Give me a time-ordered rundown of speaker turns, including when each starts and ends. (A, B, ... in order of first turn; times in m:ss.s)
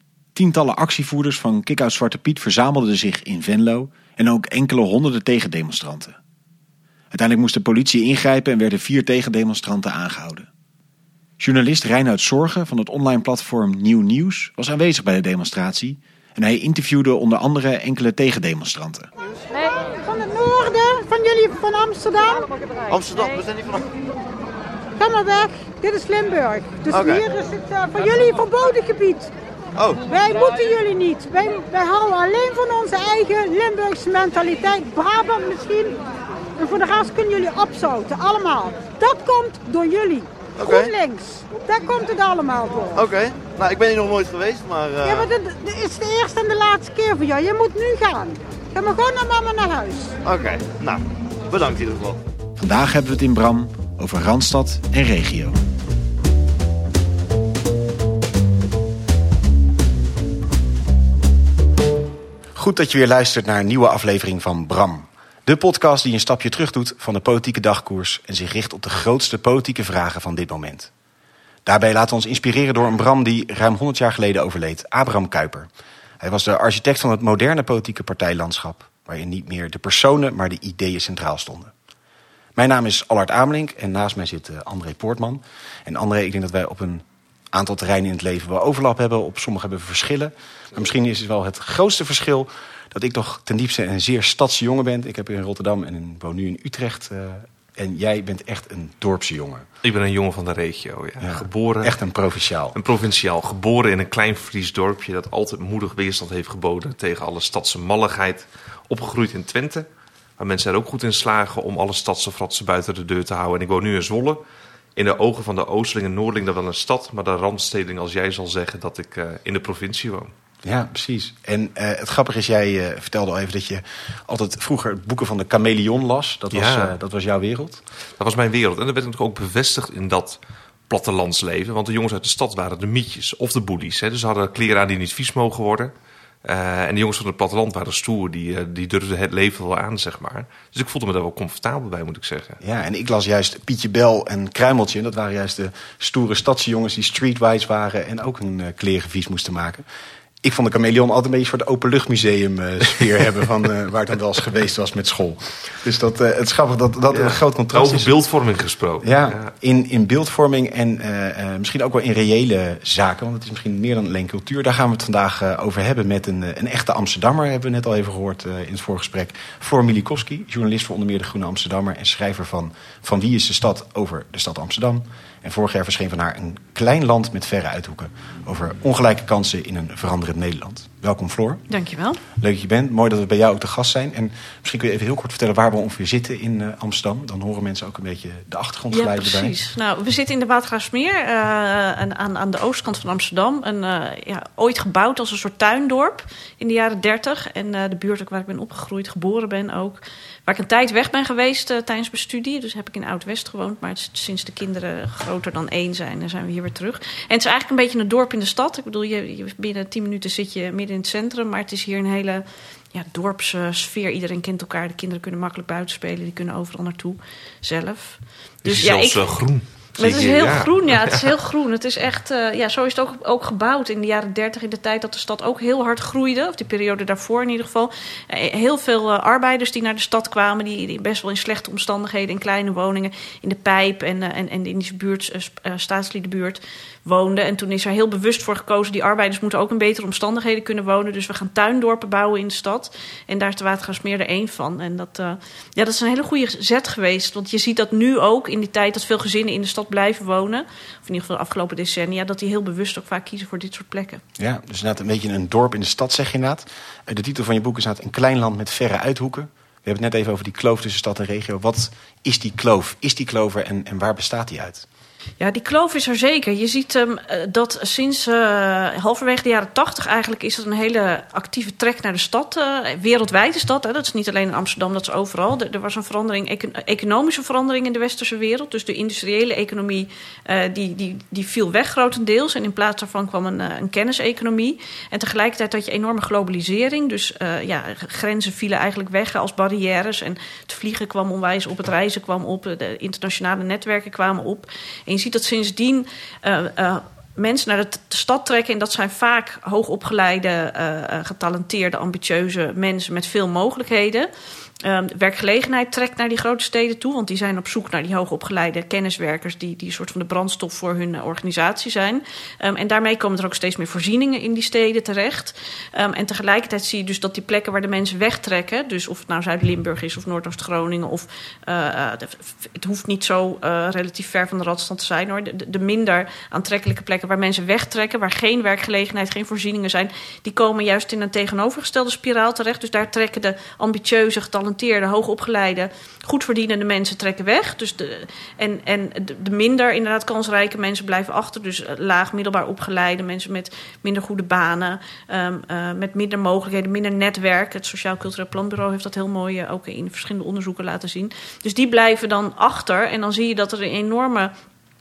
0:00.4-0:06.2 A
0:07.1-0:10.5 A
0:11.4-0:19.1 A
0:19.5-0:22.5 B
0:22.9-0:23.9 C
0:25.0-0:29.3 B
0:26.9-0:27.2 C
0:29.8-0:30.0 C
0:30.1-0:36.0 B
0:36.6-0:43.0 B
0:40.6-0:40.9 C
0:43.0-0:45.3 C
0:45.0-0:50.2 B
0:50.2-0:52.2 C
0:52.6-0:55.6 A
1:02.6-1:10.9 A
1:11.7-1:15.7 A
1:16.2-1:21.7 A
1:22.6-1:39.7 A
1:39.8-1:42.0 D
1:41.2-1:42.8 A
1:42.7-1:49.9 D
1:50.4-1:54.4 D
1:55.0-2:00.3 D
2:00.6-2:07.8 A
2:06.5-2:06.9 D
2:08.2-2:15.9 D
2:16.4-2:22.6 D
2:22.6-2:29.9 A
2:30.4-2:38.1 A
2:37.1-2:39.5 D
2:39.0-3:01.6 A
3:01.7-3:02.2 E
3:02.4-3:09.6 A
3:08.9-4:14.2 E
3:38.6-3:41.3 D
4:14.4-4:24.9 A
4:25.4-5:04.3 E
5:04.8-5:54.5 E